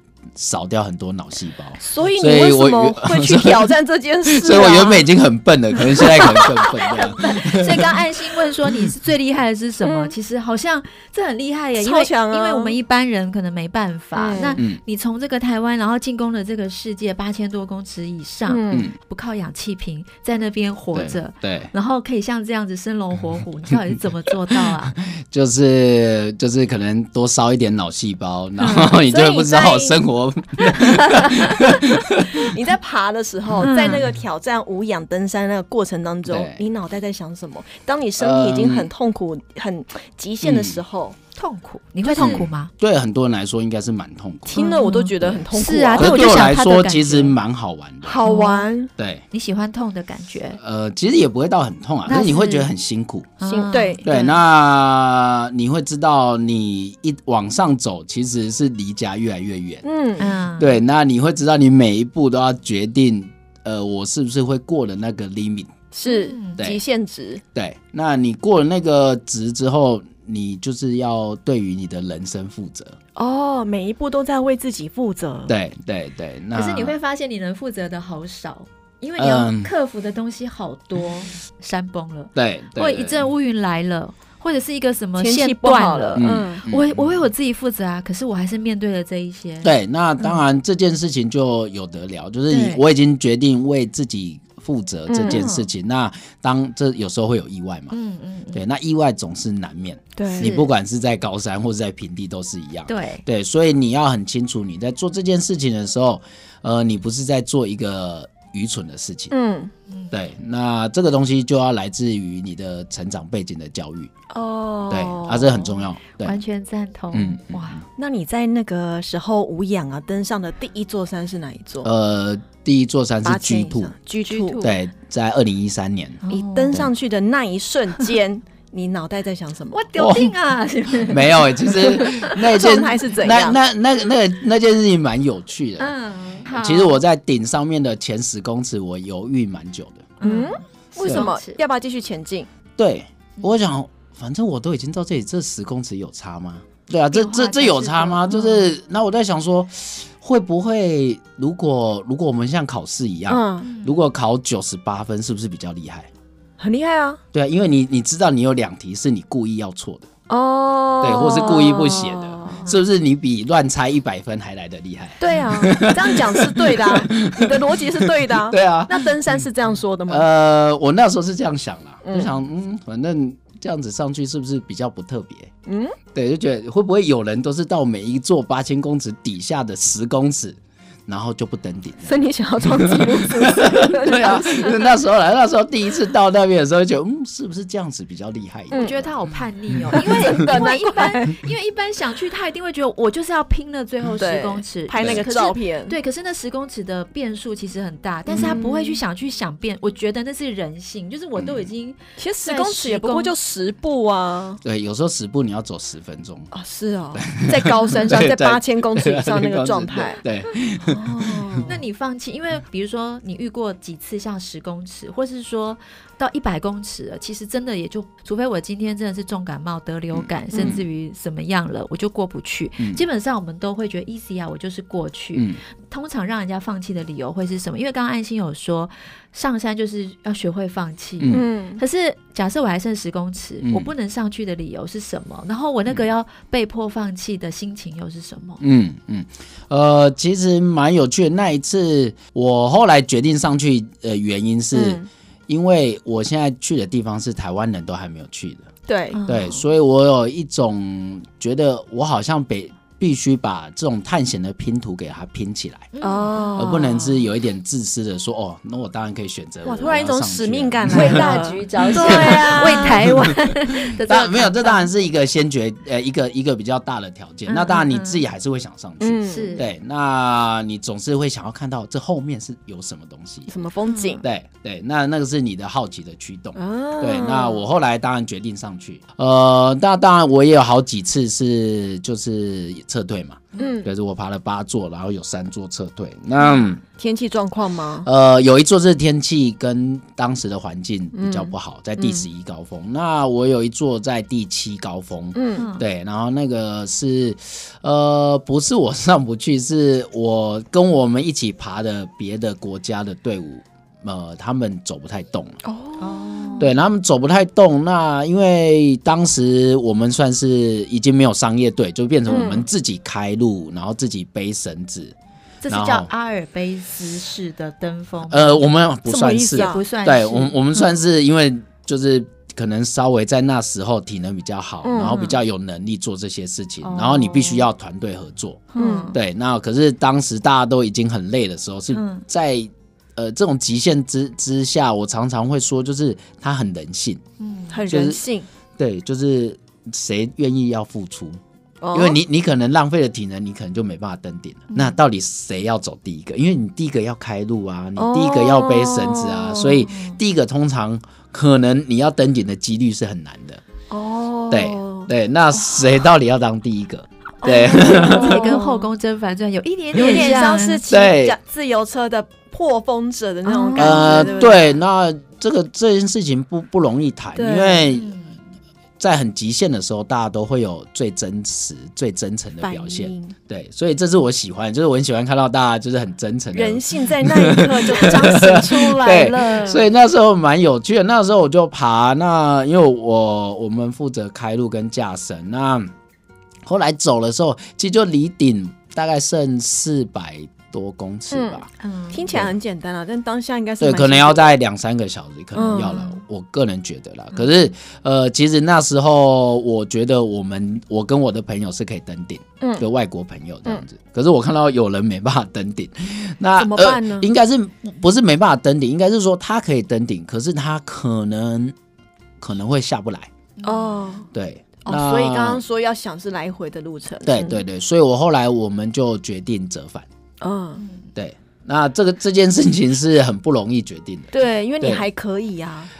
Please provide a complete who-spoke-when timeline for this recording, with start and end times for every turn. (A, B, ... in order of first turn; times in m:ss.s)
0:00.4-0:03.7 A
0:01.8-0:05.1 B
0:04.3-0:07.8 A
0:05.9-0:06.7 B
0:07.0-0:25.0 C
0:09.8-0:10.2 B
0:11.8-0:12.8 B
0:14.1-0:14.6 B
0:14.6-0:14.8 A
0:18.5-0:18.9 B
0:20.9-0:21.7 A
0:23.7-0:32.3 A
0:28.6-0:30.0 B
0:31.1-0:31.7 B
0:32.3-0:41.2 B
0:33.6-0:34.0 C
0:36.3-0:36.6 A
0:38.2-0:38.9 A
0:40.4-0:40.8 A
0:41.4-0:42.7 C
0:42.0-0:42.4 B
0:42.2-0:44.7 A
0:44.5-0:46.4 B
0:44.6-0:47.3 C
0:46.0-0:48.2 A
0:48.0-0:48.9 B
0:48.2-0:48.7 C
0:49.0-0:49.2 A
0:49.3-0:50.6 C
0:50.6-0:53.3 A
0:52.1-0:52.7 C
0:53.4-0:54.4 C
0:53.4-0:54.0 B
0:54.0-0:59.8 A
0:59.8-1:00.3 B
1:00.2-1:00.8 C
1:00.6-1:05.8 A
1:05.9-1:07.4 B
1:06.0-1:06.6 C
1:07.6-1:13.0 A
1:13.2-1:15.5 B
1:15.5-1:17.0 A
1:16.5-1:29.7 C
1:19.2-1:19.7 A
1:22.4-1:23.3 A
1:25.2-1:26.6 B
1:26.2-1:27.1 A
1:29.6-1:38.0 A
1:32.5-1:32.8 C
1:35.1-1:35.4 B
1:35.3-1:35.7 C
1:37.9-1:38.6 C
1:38.5-1:49.3 A
1:40.2-1:40.5 B
1:40.4-1:40.7 C
1:42.9-1:43.2 C
1:49.3-1:49.7 B
1:50.1-1:54.1 A
1:54.3-1:55.8 B
1:54.9-1:56.4 A
1:56.2-1:57.8 C
1:57.1-1:57.8 A
1:58.0-2:01.9 B
2:01.8-2:03.9 A
2:03.2-2:04.6 B
2:04.3-2:04.7 C
2:04.6-2:06.2 A
2:06.3-2:06.8 C
2:06.3-2:09.8 B
2:09.7-2:12.1 C
2:10.0-2:10.4 A
2:11.0-2:15.9 A
2:12.2-2:13.6 B
2:15.8-2:17.0 C
2:16.5-2:20.1 A
2:20.2-2:21.6 C
2:20.2-2:22.5 B
2:22.8-2:36.1 A
2:27.1-2:28.7 C
2:33.3-2:33.7 B
2:33.6-2:34.0 C
2:36.6-2:37.2 B
2:37.3-2:40.1 A
2:40.3-2:42.7 B
2:41.0-2:49.0 A
2:45.2-2:50.3 B
2:50.1-2:55.5 A
2:52.0-2:52.3 B
2:55.7-2:56.0 B
2:56.1-3:09.1 A
3:02.0-3:04.8 B
3:08.8-3:23.3 C
3:09.9-3:11.4 B
3:14.2-3:16.0 B
3:18.3-3:19.0 B
3:18.3-3:18.6 A
3:21.4-3:21.7 A
3:22.2-3:24.6 B
3:24.6-3:26.5 A
3:26.5-3:30.2 B
3:27.2-3:31.7 A
3:30.8-3:31.8 B
3:31.7-3:58.6 C
3:40.1-3:40.8 A
3:40.5-3:40.8 B
3:42.8-3:43.0 A
3:45.3-3:45.6 A
3:51.2-3:51.4 A
3:51.3-3:51.8 B
3:53.6-3:53.9 A
3:58.6-4:08.7 A
4:04.7-4:05.1 B
4:08.9-4:09.2 B
4:09.1-4:09.6 C
4:09.3-4:15.9 A
4:15.9-4:16.9 C
4:16.0-4:17.2 B
4:16.6-4:23.3 A
4:19.6-4:23.0 B
4:20.9-4:24.9 C
4:24.0-4:33.5 A
4:27.5-4:28.2 C
4:29.0-4:29.6 B
4:29.3-4:29.7 C
4:33.5-4:34.2 B
4:33.9-4:34.2 C
4:34.2-4:46.8 A
4:36.6-4:37.6 B
4:43.6-4:43.9 B
4:47.0-4:48.1 B
4:48.0-5:05.6 A
4:51.1-4:52.2 B
4:55.4-4:55.6 B
4:55.5-4:55.8 C
5:05.6-5:06.6 B
5:06.0-5:06.7 C
5:06.6-5:15.2 A
5:12.3-5:12.7 B
5:15.6-5:18.7 C
5:15.7-5:16.1 A
5:18.3-5:37.2 A
5:19.1-5:19.8 B
5:19.5-5:20.6 C
5:24.8-5:25.1 B
5:25.0-5:25.4 C
5:26.8-5:27.7 C
5:28.7-5:29.2 C
5:28.8-5:29.1 B
5:31.9-5:32.2 C
5:37.4-5:37.8 C
5:37.7-5:38.5 B
5:37.9-5:38.2 A
5:38.8-5:41.4 A
5:41.8-5:42.2 B
5:41.9-5:53.6 A
5:44.7-5:45.0 C
5:48.0-5:49.8 B
5:49.9-5:50.2 C
5:53.9-5:55.1 B
5:54.5-5:58.6 A
5:57.4-5:58.9 B
5:57.5-6:00.8 C
6:00.0-6:01.4 A
6:00.0-6:04.8 B
6:03.5-6:04.3 C
6:03.8-6:08.1 A
6:07.4-6:07.9 B
6:07.9-6:08.4 C
6:09.0-6:25.9 A
6:12.6-6:13.4 B
6:16.5-6:19.8 B
6:26.6-6:31.7 A
6:31.3-6:34.6 B
6:31.8-6:32.3 C
6:33.8-6:51.8 A
6:35.6-6:36.0 B
6:35.6-6:36.2 C
6:42.6-6:42.9 B
6:46.6-6:47.3 B
6:52.4-6:53.3 A
6:53.6-6:54.0 C
6:53.6-6:54.3 B
6:54.3-6:55.6 A
6:54.8-6:57.6 B
6:57.3-7:00.1 A
7:00.4-7:00.8 B
7:00.8-7:01.0 C
7:01.2-7:05.0 A
7:04.3-7:05.9 B